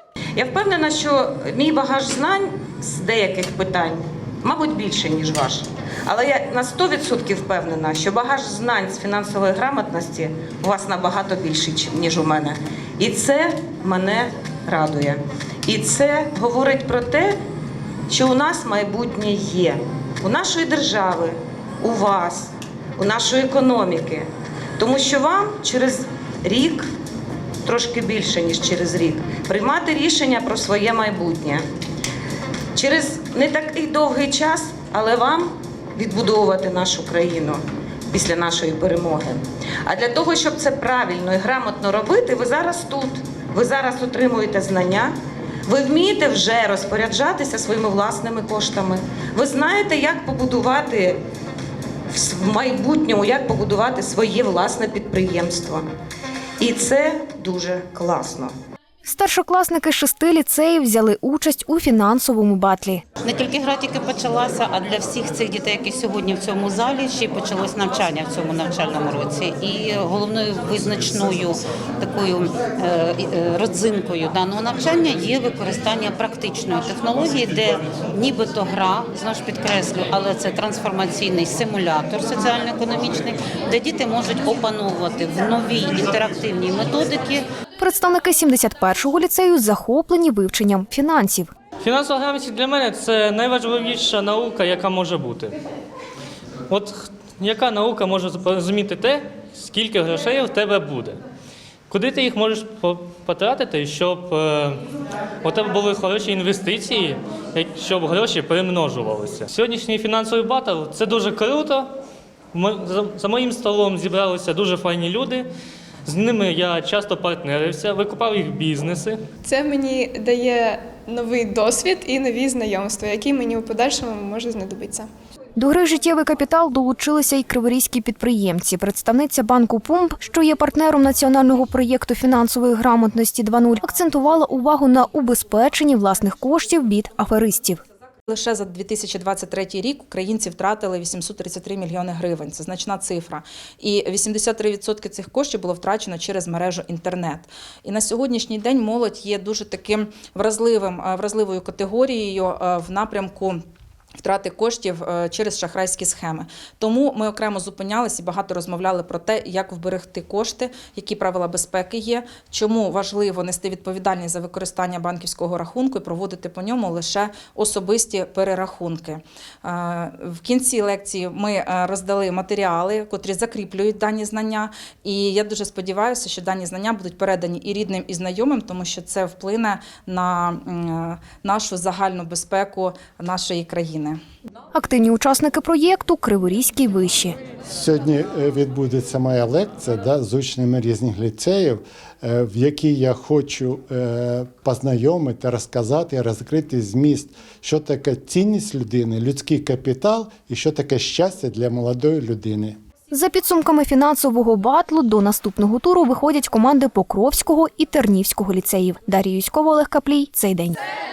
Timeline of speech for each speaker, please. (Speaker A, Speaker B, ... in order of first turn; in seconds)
Speaker A: 0.4-17.4, 18.1-26.9, 27.6-31.6, 32.8-45.1, 45.7-51.2, 52.1-55.9, 56.6-58.5
Speaker B: 59.0-63.0, 87.8-91.5, 125.6-137.8, 184.7-187.4, 203.1-210.8
Speaker C: 63.2-87.5
Speaker D: 91.8-95.6, 96.7-101.2, 101.9-104.8, 105.4-111.9, 112.5-115.5, 116.1-119.2
Speaker E: 119.4-125.1
Speaker F: 138.3-153.6, 154.2-184.2
Speaker G: 187.6-202.8